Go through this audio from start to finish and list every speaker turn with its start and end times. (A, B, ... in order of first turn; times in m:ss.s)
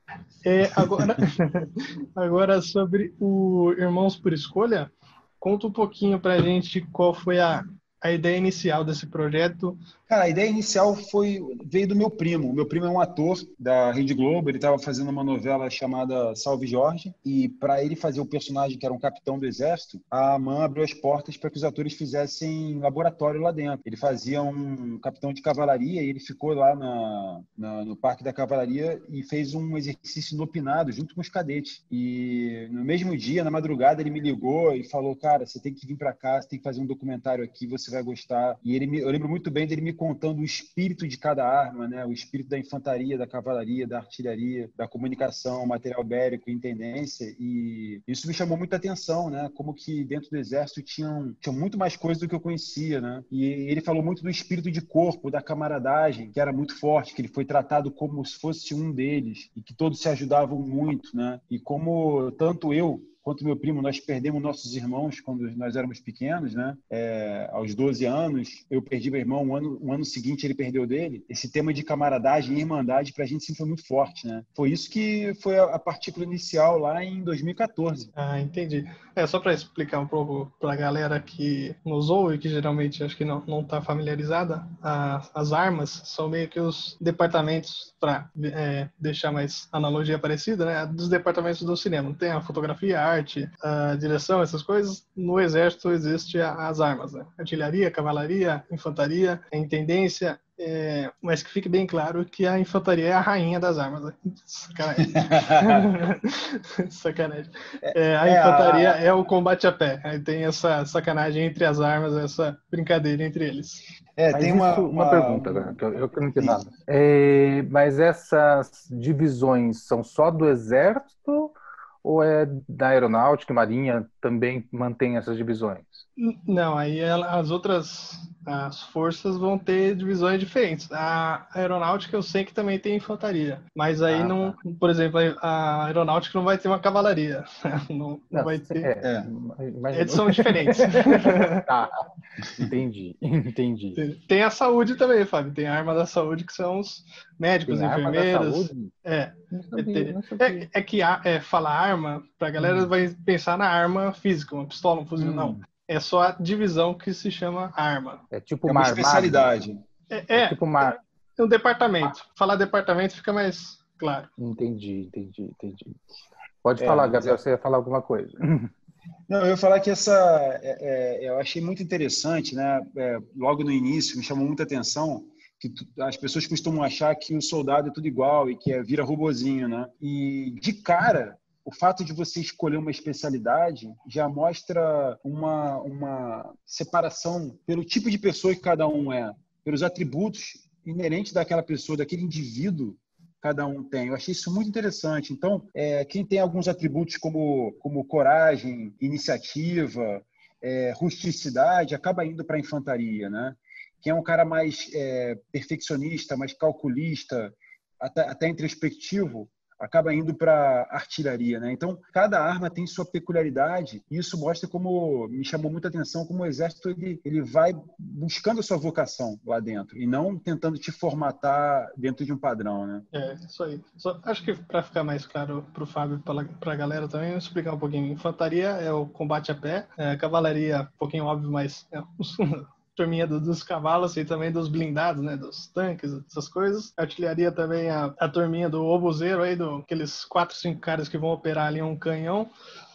0:00.4-0:09.8 A
0:00.7-0:01.2 B
0:10.1-1:18.1 B
1:18.2-1:53.8 A
1:45.2-1:45.9 B
1:47.8-1:49.0 B
1:54.2-1:56.7 B
1:54.3-2:06.0 C
2:06.2-2:18.9 A
2:14.1-2:14.6 C
2:18.3-2:21.9 C
2:19.0-2:19.3 B
2:19.9-2:21.7 A
2:22.6-2:24.0 C
2:24.0-2:38.2 A
2:27.7-2:28.9 C
2:29.5-2:30.7 C
2:32.6-2:32.9 C
2:35.2-2:35.6 C
2:38.3-2:39.5 C
2:38.6-2:39.8 B
2:40.1-2:40.6 A
2:40.4-2:41.0 C
2:41.4-2:44.3 A
2:44.4-2:46.0 C
2:46.6-2:48.7 C
2:46.8-2:47.4 B
2:49.3-3:43.1 B
3:43.1-4:02.5 A